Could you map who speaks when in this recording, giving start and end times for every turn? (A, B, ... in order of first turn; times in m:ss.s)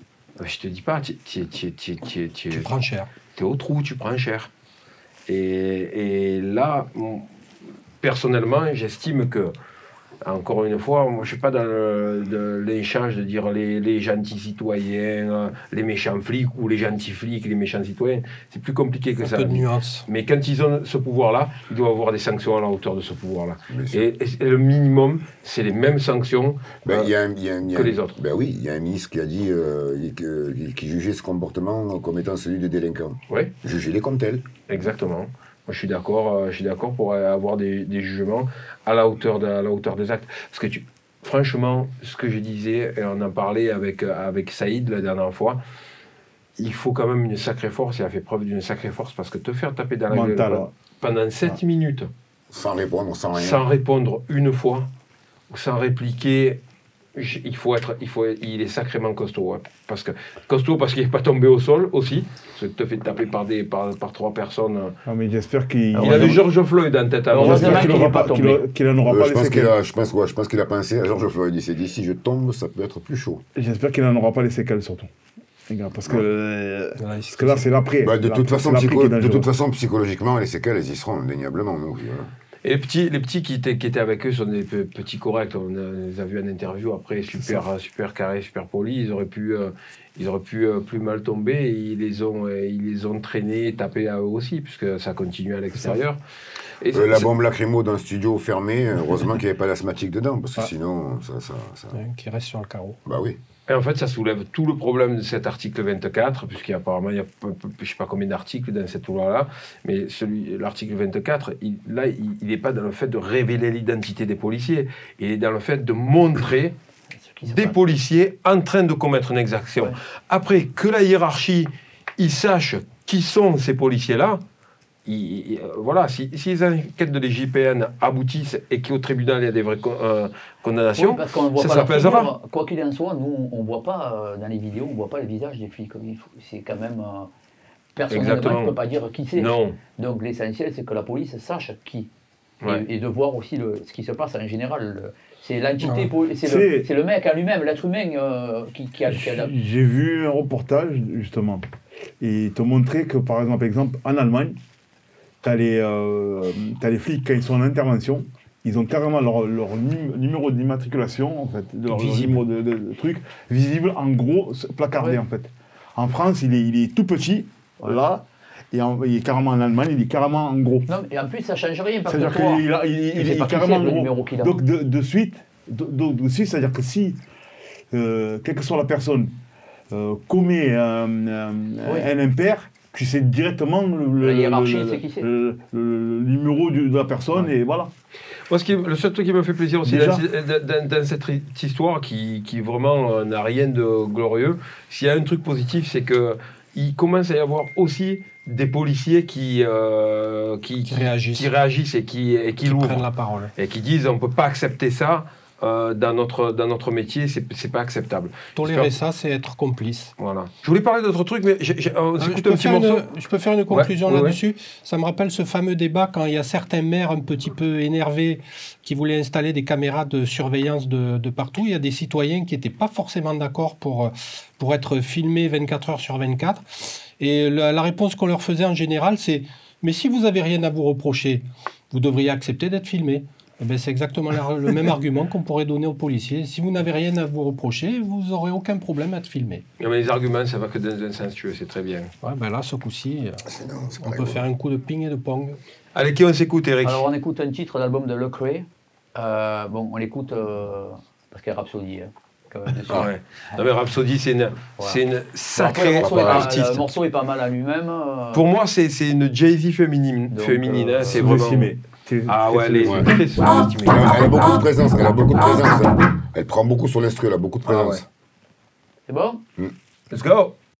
0:00.4-0:02.7 A
0:02.5-0:03.1 B
0:03.3-0:04.5 A
0:05.3-0:07.3 A
0:08.0-0:09.5 A
0:10.2-0:27.1 A
0:19.2-0:20.0 B
0:23.7-0:24.0 C
0:26.8-0:34.4 C
0:27.7-0:28.1 A
0:34.7-0:45.6 A
0:46.6-0:52.1 A
0:50.1-0:50.7 D
0:52.5-0:53.6 C
0:53.3-0:54.9 A
0:55.5-0:56.6 A
0:57.2-1:05.0 A
1:05.0-1:06.5 D
1:05.9-1:08.2 A
1:07.3-1:09.7 D
1:07.3-1:08.6 E
1:09.0-1:13.4 C
1:13.6-1:15.1 D
1:15.7-1:19.5 D
1:17.0-1:17.7 B
1:18.0-1:22.3 C
1:22.6-1:36.2 A
1:36.8-1:37.3 A
1:36.9-1:42.0 C
1:41.9-1:43.0 B
1:43.0-1:43.4 C
1:43.7-1:56.7 A
1:57.2-1:57.8 E
1:57.5-2:04.4 A
2:05.0-2:12.3 A
2:11.0-2:17.3 E
2:17.9-2:22.1 E
2:18.1-2:18.8 A
2:19.3-2:19.8 A
2:22.6-2:29.5 E
2:25.8-2:26.1 B
2:26.4-2:26.9 D
2:29.1-2:31.6 D
2:32.2-2:34.6 D
2:35.4-2:50.9 D
2:41.9-2:42.4 B
2:50.9-2:54.5 E
2:52.0-2:57.2 D
2:57.9-2:59.3 D
2:59.9-3:07.9 D
3:04.2-3:05.3 E
3:08.5-3:28.9 A
3:09.8-3:10.2 D
3:20.8-3:21.5 B
3:22.6-3:23.5 B
3:28.5-3:30.1 B
3:30.2-3:33.0 A
3:32.2-3:59.6 B
3:33.7-3:34.4 A
3:59.8-4:02.1 A
4:02.2-4:03.4 B
4:03.5-4:04.4 C
4:04.0-4:05.6 B
4:05.9-4:07.0 A
4:06.8-4:13.6 E
4:12.9-4:16.8 A
4:15.5-4:18.4 E
4:15.9-4:16.5 C
4:18.3-4:21.7 A
4:20.3-4:21.2 E
4:21.1-4:23.7 D
4:22.3-4:24.6 A
4:22.8-4:23.1 C
4:23.8-4:28.0 C
4:27.6-4:28.0 A
4:29.1-4:29.4 E
4:30.1-4:30.5 A